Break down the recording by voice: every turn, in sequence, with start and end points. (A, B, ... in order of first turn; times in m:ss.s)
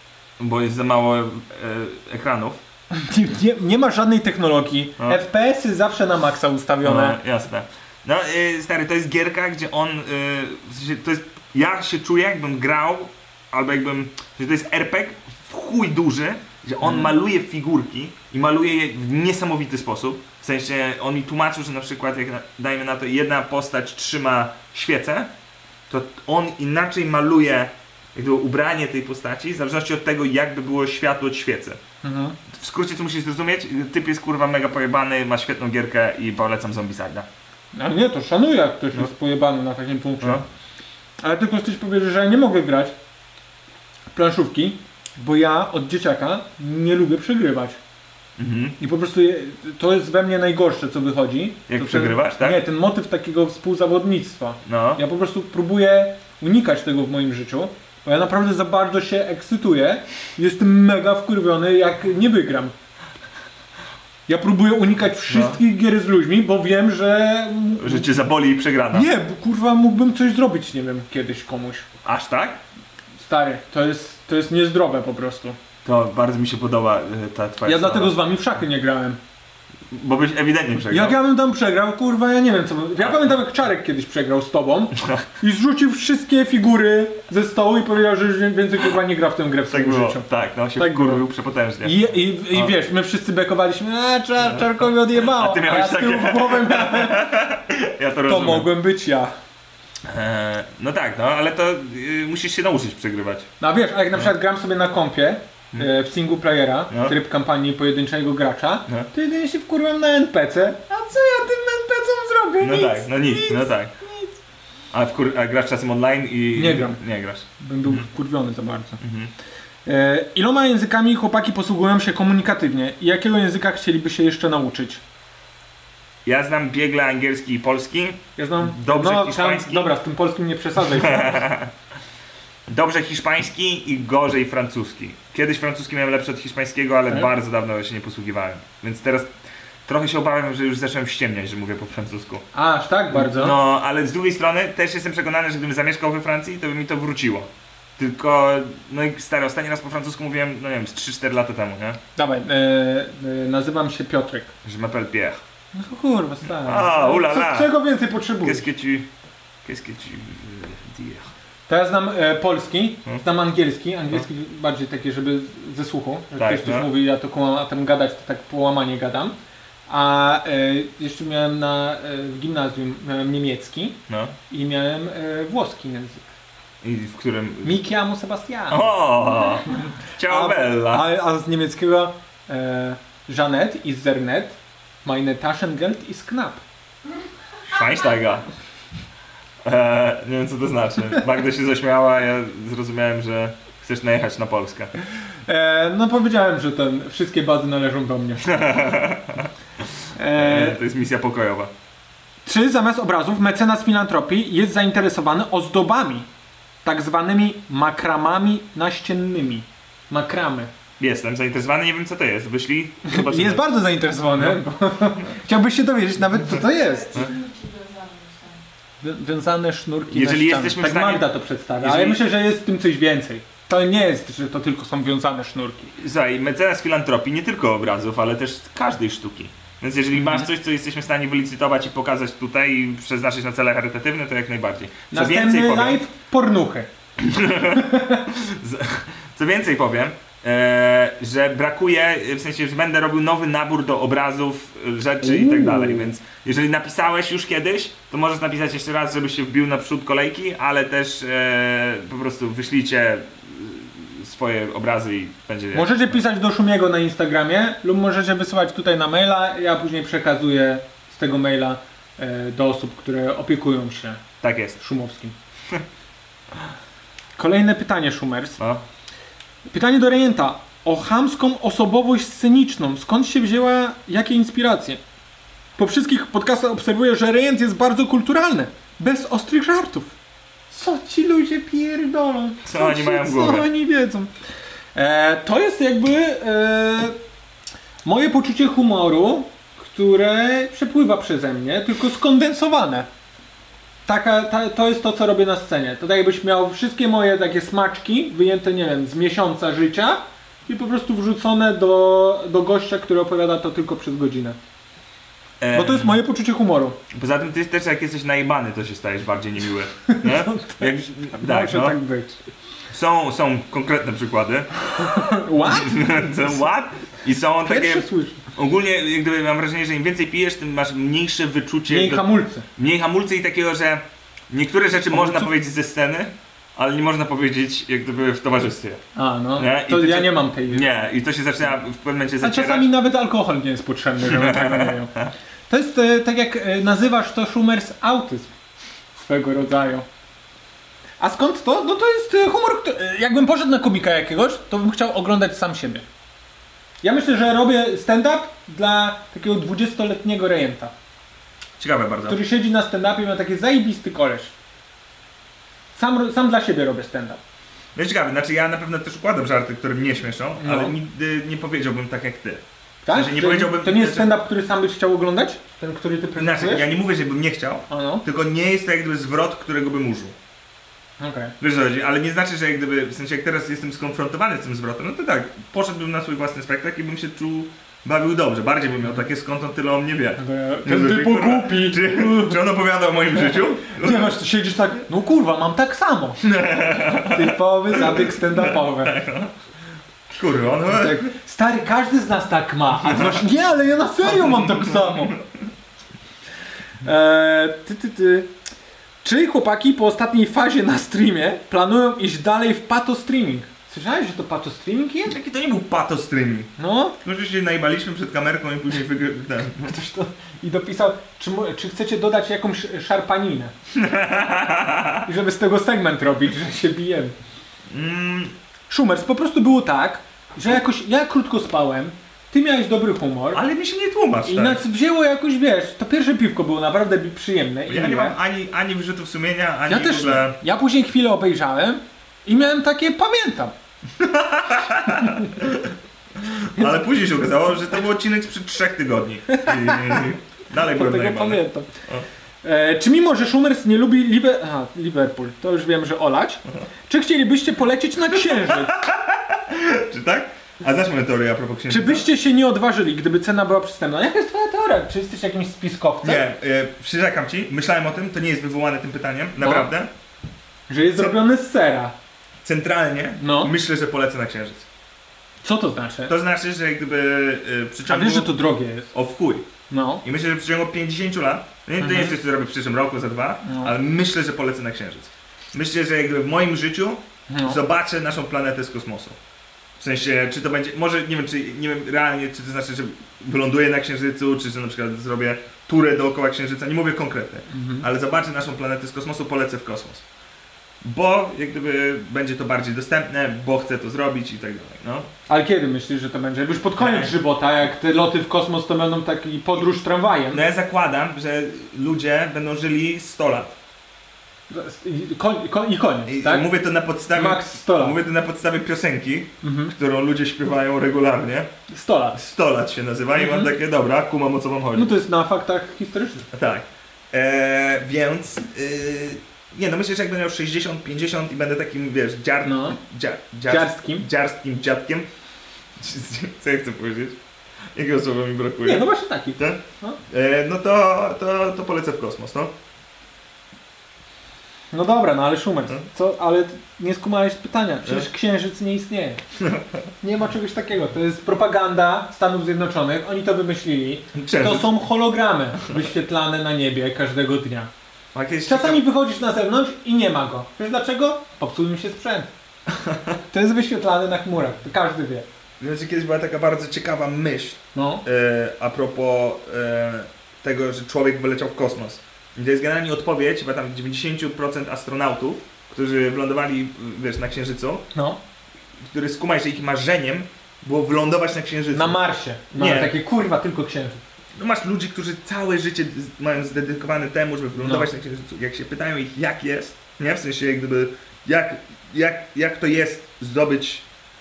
0:00.4-0:02.6 A
0:02.9-0:07.2 B
0:06.8-0:25.3 A
0:16.8-0:17.1 B
0:25.9-0:31.8 A
0:32.0-0:32.4 B
0:32.5-0:37.3 A
0:37.7-0:40.4 B
0:41.2-0:43.0 B
0:44.1-0:47.8 B
0:48.4-0:48.8 A
0:48.8-1:02.7 B
0:51.7-0:52.6 A
0:54.6-0:55.0 A
1:04.3-1:08.2 B
1:05.3-1:05.6 A
1:07.8-1:09.1 A
1:08.9-1:11.9 B
1:12.0-1:12.6 A
1:13.2-1:15.6 B
1:15.8-1:18.2 A
1:17.6-1:19.2 B
1:19.9-1:21.2 A
1:20.9-1:31.2 B
1:23.0-1:23.4 A
1:29.7-1:32.8 A
1:31.8-1:37.4 B
1:34.4-1:38.7 A
1:38.3-1:39.3 B
1:40.0-1:43.5 A
1:43.6-1:54.4 B
1:46.9-1:47.2 A
1:52.6-1:53.9 A
1:54.9-1:58.0 A
1:56.5-1:57.0 B
1:57.6-1:59.0 B
1:59.0-1:59.3 A
1:59.8-2:05.0 B
2:06.2-2:09.9 A
2:08.4-2:11.5 B
2:10.9-2:11.7 A
2:12.7-2:19.3 A
2:19.9-2:22.4 A
2:22.5-2:23.6 B
2:23.1-2:32.0 A
2:32.2-2:34.5 B
2:34.6-2:35.4 A
2:35.7-2:38.7 B
2:36.6-2:37.7 A
2:38.4-2:39.1 A
2:39.6-2:41.3 A
2:41.7-2:49.4 B
2:46.4-2:46.9 A
2:49.9-2:56.3 B
2:54.1-2:54.4 A
2:56.8-2:57.8 A
2:57.6-2:58.9 B
2:58.7-3:01.1 A
3:00.3-3:06.6 B
3:07.7-3:08.5 A
3:09.6-3:14.9 A
3:15.5-3:18.7 B
3:18.4-3:19.5 A
3:20.2-3:20.8 B
3:20.4-3:21.7 A
3:22.4-3:26.3 B
3:26.8-3:30.7 B
3:31.0-3:33.7 A
3:33.1-3:37.2 B
3:36.6-3:38.6 C
3:39.0-3:45.9 B
3:40.1-3:42.2 A
3:46.0-3:56.0 A
3:50.2-3:50.5 B
3:55.1-3:56.9 B
3:57.2-4:16.2 A
3:57.7-3:58.3 B
4:05.2-4:06.1 B
4:15.7-4:24.2 B
4:24.4-4:24.8 A
4:24.8-4:25.4 B
4:27.4-4:28.6 B
4:28.6-4:28.8 A
4:29.7-4:35.0 B
4:35.8-4:40.1 B
4:40.7-4:44.3 B
4:42.6-4:43.7 A
4:45.0-4:47.2 B
4:48.0-4:53.1 B
4:54.1-5:04.6 B
5:05.6-5:06.2 A
5:05.7-5:07.0 B
5:07.1-5:12.0 A
5:10.1-5:12.4 B
5:12.9-5:29.0 A
5:15.0-5:16.4 B
5:17.7-5:18.4 B
5:21.9-5:22.7 B
5:25.1-5:25.5 B
5:29.2-5:30.9 B
5:29.6-5:32.9 A
5:32.4-5:35.1 B
5:34.2-5:35.3 A
5:35.7-5:38.5 B
5:39.2-5:40.1 B
5:41.2-5:46.0 B
5:47.0-5:50.9 B
5:51.8-5:52.4 A
5:52.3-5:54.5 B
5:56.0-5:57.4 B
5:58.0-6:04.3 A
6:00.6-6:01.0 B
6:03.0-6:06.9 B
6:06.4-6:10.4 A
6:07.9-6:08.2 B
6:11.2-6:11.6 B
6:11.6-6:24.3 A
6:20.4-6:22.6 B
6:23.4-6:26.4 B
6:26.4-6:29.6 A
6:27.1-6:29.2 B
6:30.3-6:31.2 A
6:30.9-6:35.4 B
6:33.0-6:33.4 A
6:34.2-6:35.5 A
6:37.0-6:38.5 B
6:39.2-6:45.4 B
6:45.3-6:49.9 A
6:46.8-6:47.2 B
6:49.8-6:53.7 B
6:54.0-6:55.2 A
6:55.2-6:57.4 B
6:57.9-6:58.6 A
6:58.9-7:03.6 B
7:03.5-7:04.8 A
7:04.5-7:08.4 B
7:07.9-7:10.6 A
7:09.9-7:13.8 B
7:14.2-7:22.2 A
7:19.5-7:20.3 B
7:20.8-7:21.9 B
7:22.6-7:29.0 B
7:28.3-7:32.3 A
7:31.9-7:36.4 B
7:36.2-7:40.1 A
7:39.6-7:39.9 B
7:40.9-7:42.2 B
7:42.6-7:44.9 A
7:43.4-7:43.7 B
7:45.6-7:46.3 B
7:46.3-7:48.5 A
7:48.1-7:49.1 B
7:49.1-7:49.7 A
7:49.9-7:50.2 B
7:50.2-7:59.4 A
7:52.0-7:52.4 B
7:53.6-7:53.9 B
7:57.5-7:57.8 B
8:00.0-8:10.2 A
8:07.7-8:08.1 B
8:11.0-8:15.3 A
8:15.5-8:20.6 B
8:17.0-8:17.3 A
8:20.5-8:23.8 A
8:24.7-8:26.7 B
8:26.3-8:31.7 A
8:27.3-8:28.2 B
8:29.6-8:29.9 B
8:31.9-8:32.4 B
8:32.4-8:35.1 A
8:33.3-8:33.7 B
8:34.9-8:36.5 B
8:36.5-8:45.3 A
8:42.6-8:43.0 B
8:43.7-8:44.3 B
8:46.0-8:47.4 A
8:47.9-8:52.7 A
8:48.8-8:50.2 B
8:54.9-8:59.4 B
8:59.6-9:00.0 A
9:00.2-9:07.9 B
9:04.3-9:04.9 A
9:08.3-9:09.0 A
9:08.7-9:12.5 B
9:13.0-9:13.4 A
9:13.5-9:15.4 B
9:15.8-9:28.0 A
9:17.9-9:18.2 B
9:28.1-9:28.4 B
9:29.1-9:32.2 A
9:31.9-9:34.2 B
9:32.8-9:33.1 A
9:34.6-9:44.1 A
9:37.8-9:38.1 B